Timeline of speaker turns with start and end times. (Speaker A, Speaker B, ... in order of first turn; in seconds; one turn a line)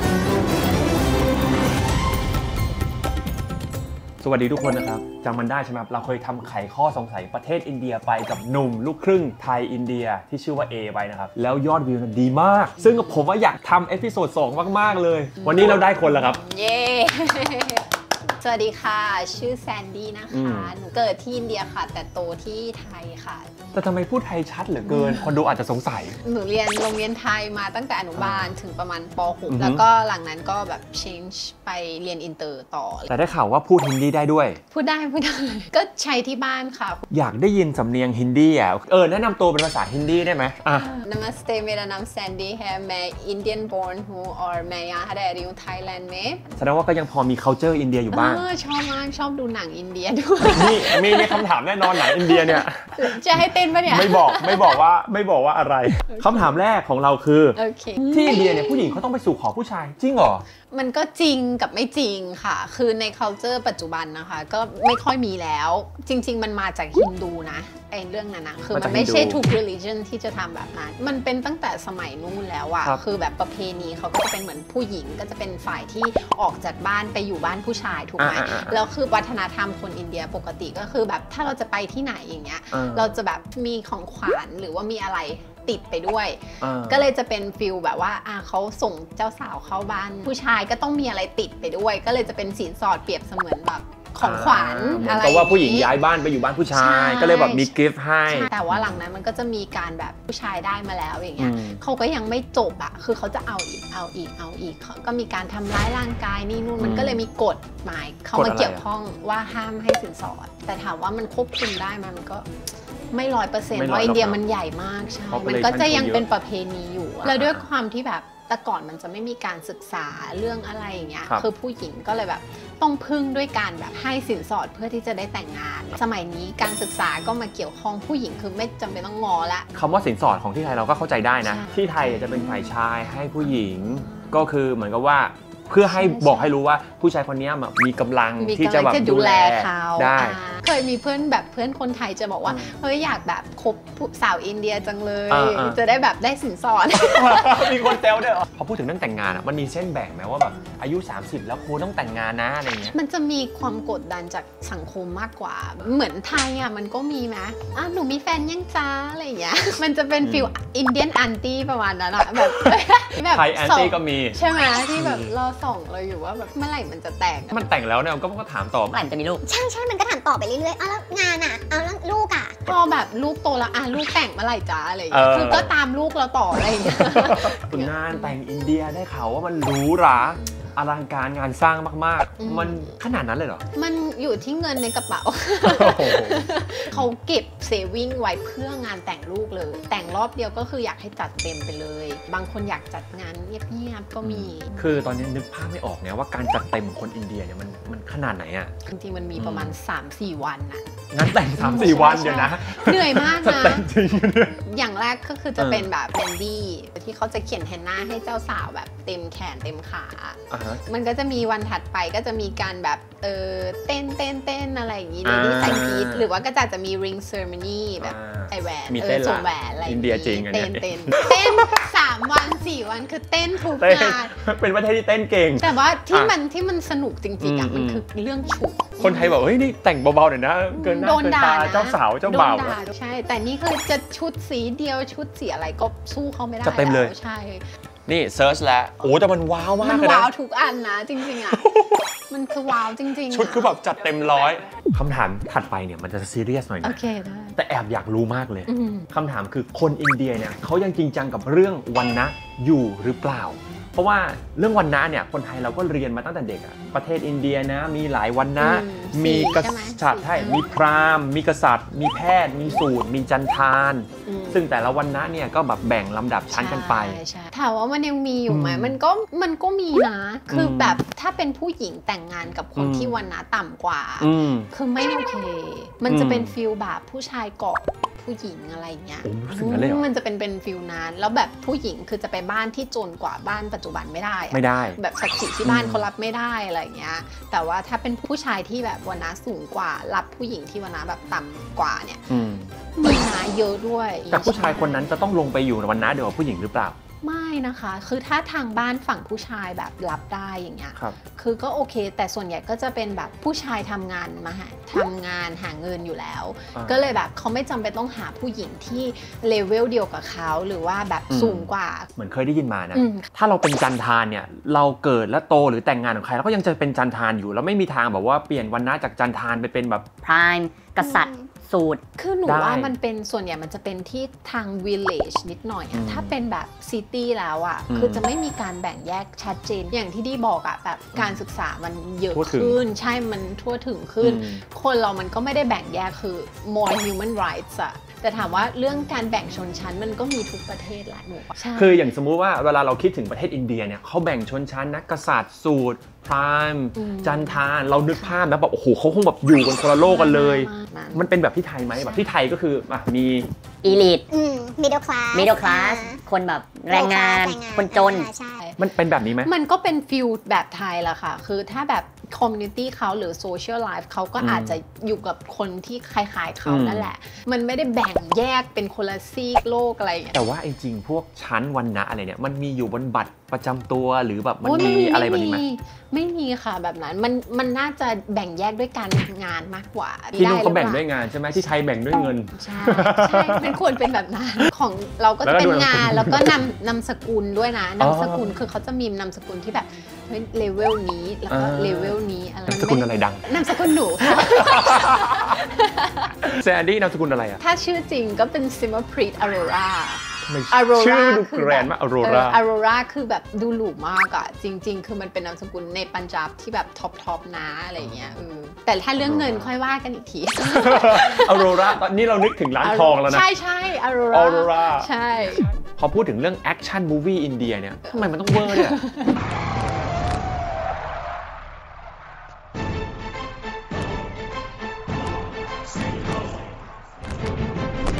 Speaker A: 4.2-16.4
Speaker B: 15.4-23.5
Speaker A: 20.3-20.7
Speaker A: 23.7-26.2
Speaker B: 24.8-25.3
Speaker B: 26.2-33.1
Speaker A: 28.1-28.5
Speaker A: 29.5-29.8
Speaker A: 33.1-34.6
Speaker B: 34.7-37.1
Speaker A: 37.1-40.9
Speaker B: 40.8-46.4
Speaker A: 46.6-48.5
Speaker B: 48.1-54.8
Speaker A: 50.5-60.5
Speaker B: 56.1-56.5
Speaker B: 57.6-58.9
Speaker B: 60.7-95.9
Speaker A: 68.7-69.4
Speaker A: 78.2-78.8
Speaker A: 82.7-83.2
Speaker A: 86.6-87.1
Speaker A: 94.2-98.8
Speaker B: 96.7-97.8
Speaker B: 98.3-112.5
Speaker A: 101.4-101.8
Speaker A: 106.8-107.2
Speaker A: 108.3-108.8
Speaker B: 113.1-129.7
Speaker A: 113.7-114.4
Speaker A: 115.3-116.3
Speaker A: 117.2-117.7
Speaker A: 129.7-140.4
Speaker B: 131.4-132.7
Speaker B: 133.8-134.4
Speaker B: 135.9-136.5
Speaker B: 138.4-148.0
Speaker A: 142.4-142.7
Speaker A: 145.3-145.8
Speaker A: 147.0-152.9
Speaker B: 152.8-167.6
Speaker A: 160.2-160.5
Speaker A: 162.4-164.4
Speaker A: 164.9-165.3
Speaker A: 167.5-169.0
Speaker C: 168.9-169.4
Speaker D: 169.4-172.6
Speaker B: 172.7-178.3
Speaker A: 175.1-175.7
Speaker A: 176.9-183.7
Speaker B: 182.4-182.9
Speaker B: 183.8-194.7
Speaker A: 185.6-187.1
Speaker A: 194.2-198.7
Speaker B: 198.9-200.9
Speaker A: 199.3-199.8
Speaker A: 201.1-204.6
Speaker B: 201.6-203.9
Speaker B: 204.7-224.4
Speaker A: 205.6-205.9
Speaker A: 210.5-210.8
Speaker A: 215.2-216.3
Speaker A: 218.0-221.8
Speaker A: 223.7-226.3
Speaker B: 225.6-229.4
Speaker A: 227.4-228.1
Speaker A: 229.0-232.8
Speaker B: 230.7-237.6
Speaker A: 236.6-237.1
Speaker A: 238.1-240.3
Speaker B: 239.8-241.6
Speaker A: 241.5-242.1
Speaker B: 242.3-243.8
Speaker A: 243.3-247.0
Speaker B: 246.8-247.6
Speaker A: 247.6-267.2
Speaker B: 248.7-249.1
Speaker B: 258.6-260.8
Speaker B: 264.3-264.6
Speaker B: 266.5-292.3
Speaker A: 268.5-269.0
Speaker A: 270.5-271.0
Speaker A: 272.8-273.2
Speaker A: 274.2-274.7
Speaker A: 276.1-276.6
Speaker A: 279.2-280.1
Speaker A: 284.5-285.0
Speaker A: 285.6-286.1
Speaker A: 292.3-292.7
Speaker B: 293.0-295.1
Speaker A: 294.3-297.0
Speaker B: 297.2-312.1
Speaker A: 306.7-307.1
Speaker A: 311.3-320.1
Speaker B: 312.9-313.3
Speaker C: 320.2-322.0
Speaker D: 321.0-321.5
Speaker B: 322.2-342.1
Speaker A: 322.5-322.9
Speaker A: 325.9-326.3
Speaker A: 327.9-328.3
Speaker A: 331.1-331.4
Speaker A: 332.3-332.8
Speaker A: 334.2-334.6
Speaker A: 341.7-353.5
Speaker B: 347.0-348.4
Speaker B: 350.0-351.3
Speaker B: 351.9-352.3
Speaker C: 353.8-354.2
Speaker D: 354.3-356.2
Speaker C: 355.3-358.3
Speaker D: 356.9-358.6
Speaker A: 358.8-359.5
Speaker B: 359.4-370.4
Speaker A: 364.4-364.8
Speaker A: 366.6-367.1
Speaker A: 370.3-375.6
Speaker B: 374.6-381.1
Speaker A: 380.4-383.8
Speaker B: 382.5-396.4
Speaker A: 385.4-386.6
Speaker A: 388.0-388.6
Speaker A: 391.5-392.2
Speaker A: 392.7-395.6
Speaker A: 396.4-397.6
Speaker B: 397.6-412.0
Speaker A: 400.4-402.6
Speaker A: 408.0-408.4
Speaker A: 409.2-409.7
Speaker A: 410.7-413.5
Speaker B: 412.8-415.7
Speaker A: 414.3-415.1
Speaker A: 415.8-419.0
Speaker B: 418.1-419.3